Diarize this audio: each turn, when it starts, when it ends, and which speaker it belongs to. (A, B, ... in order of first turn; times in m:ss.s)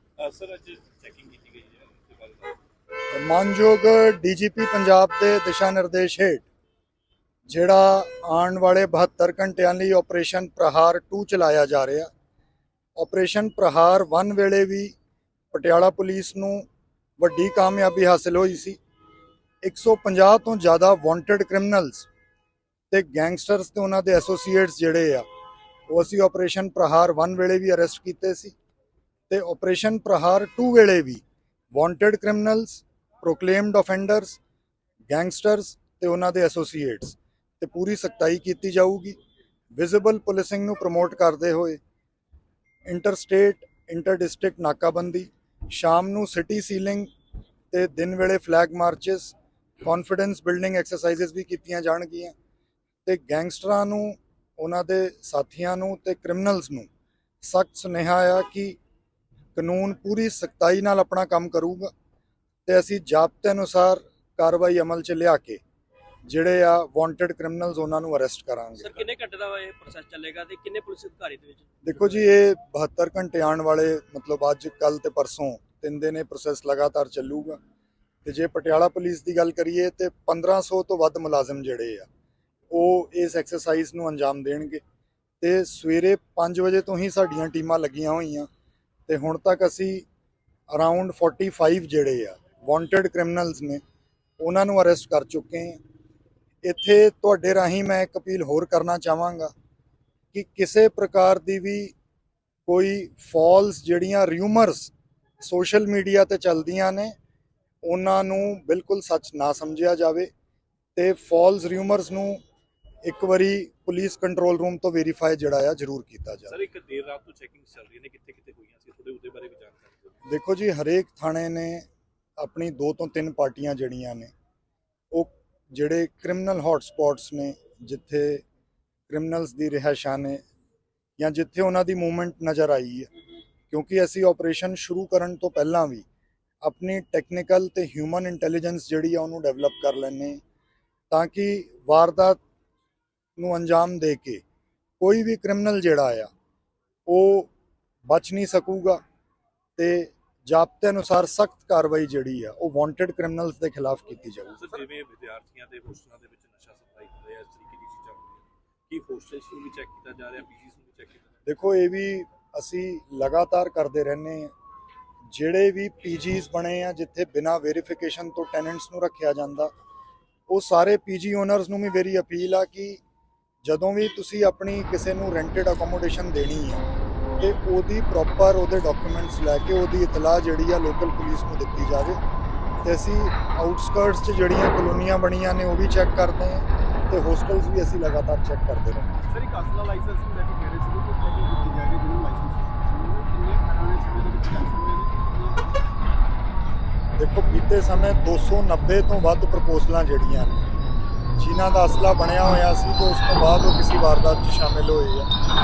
0:00.2-0:02.5 A
0:03.1-0:06.5 B
0:07.5-0:12.1 B
0:13.0-0:15.0 B
0:15.5-0:16.7 B
0:17.2-0:18.8 B
0:19.6-0:22.1 B
0:22.9-0:25.2 B
0:25.9-0:28.6 B
0:29.3-0:34.4 B
0:35.1-0:39.2 B
0:39.7-0:41.8 B
0:42.8-0:47.1 B
0:47.7-0:52.3 B
0:53.0-0:56.9 B
0:57.4-0:58.8 B
0:59.5-1:01.9 B
1:02.6-1:05.6 B
1:06.3-1:09.0 B
1:08.8-1:11.7 C
1:11.8-1:17.6 B
1:18.2-1:22.1 B
1:22.7-1:24.8 B
1:25.4-1:28.5 B
1:29.1-1:30.0 B
1:30.7-1:33.8 B
1:34.4-1:35.8 B
1:36.6-1:39.5 B
1:40.3-1:41.9 B
1:42.7-1:47.1 B
1:47.8-1:50.3 B
1:51.0-1:52.4 B
1:53.0-1:56.6 B
1:56.5-2:00.2 A
2:00.3-2:01.8 B
2:02.4-2:04.3 B
2:05.1-2:08.4 B
2:09.1-2:10.4 B
2:11.2-2:13.1 B
2:13.7-2:16.0 B
2:16.6-2:20.4 B
2:21.1-2:22.4 B
2:23.4-2:24.4 B
2:25.0-2:26.3 B
2:27.1-2:27.5 B
2:28.1-2:29.0 B
2:29.8-2:34.7 B
2:34.6-2:41.4 A
2:41.4-2:44.5 B
2:45.3-2:49.7 B
2:50.5-2:53.0 B
2:53.6-2:56.8 B
2:57.4-3:02.2 B
3:02.8-3:09.2 B
3:09.3-3:15.6 D
3:17.2-3:20.7 B
3:21.4-3:25.3 B